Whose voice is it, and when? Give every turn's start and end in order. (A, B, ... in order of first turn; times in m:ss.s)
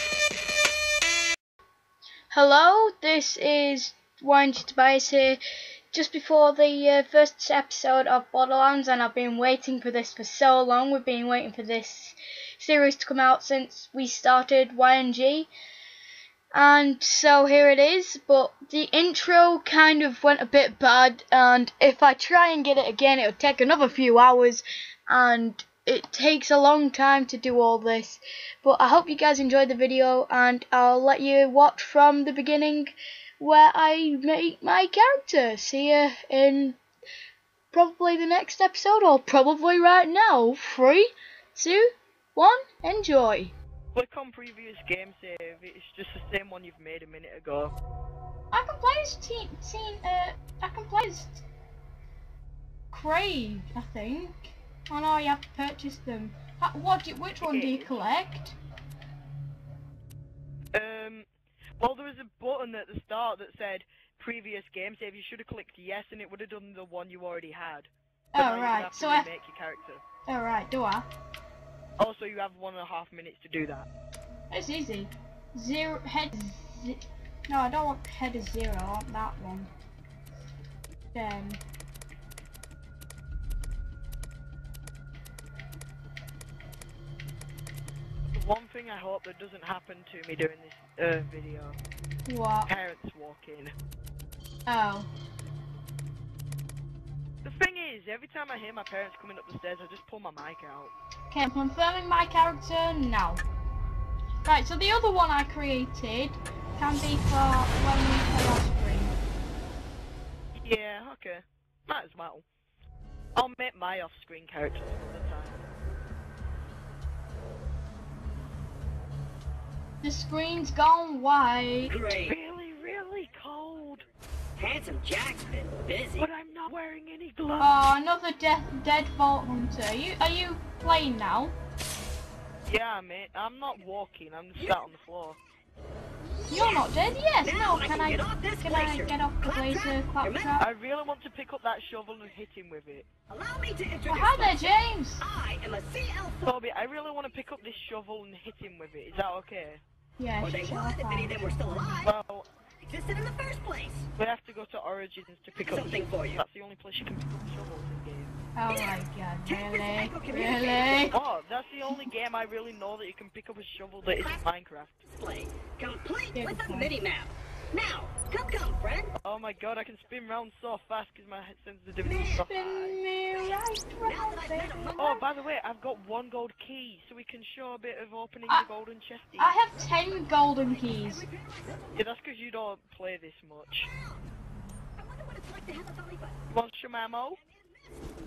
0:02.3-0:15.5 A
0:16.5-0:36.8 A
0:37.7-0:43.5 A
0:44.0-0:47.7 B
0:48.5-0:51.4 A
0:52.9-0:58.6 A
0:57.4-0:58.1 B
1:00.7-1:01.3 B
1:01.8-1:10.0 B
1:08.3-1:09.3 A
1:10.3-1:11.1 A
1:12.0-1:13.9 B
1:14.5-1:19.7 A
1:21.1-1:21.6 A
1:28.3-1:31.8 B
1:32.3-1:32.7 A
1:32.7-1:33.7 B
1:34.7-1:35.1 A
1:37.4-1:40.9 B
1:41.3-1:43.4 A
1:44.4-1:49.2 A
1:50.6-1:52.4 B
1:53.4-1:55.7 B
2:00.0-2:01.9 A
2:01.9-2:02.4 C
2:02.1-2:04.1 B
2:04.6-2:06.3 C
2:06.2-2:07.8 B
2:07.6-2:11.6 A
2:12.7-2:15.4 B
2:16.2-2:16.9 C
2:16.5-2:20.6 A
2:17.4-2:20.5 C
2:20.6-2:23.1 B
2:23.3-2:26.6 C
2:24.1-2:25.2 A
2:26.4-2:29.8 B
2:30.2-2:31.8 A
2:30.4-2:32.1 C
2:32.0-2:32.5 B
2:32.8-2:34.1 C
2:34.2-2:38.4 B
2:35.6-2:36.4 C
2:38.6-2:41.2 A
2:39.5-2:41.2 C
2:41.1-2:45.0 B
2:44.1-2:44.5 C
2:45.0-2:49.1 C
2:46.4-2:46.9 A
2:49.2-2:53.0 B
2:52.0-2:52.4 C
2:52.3-2:55.2 A
2:54.0-2:55.2 C
2:55.0-2:59.6 B
2:59.4-3:01.2 A
3:00.7-3:02.0 C
3:02.0-3:03.9 B
3:03.9-3:04.2 C
3:05.0-3:06.4 C
3:06.5-3:07.4 B
3:07.4-3:08.0 C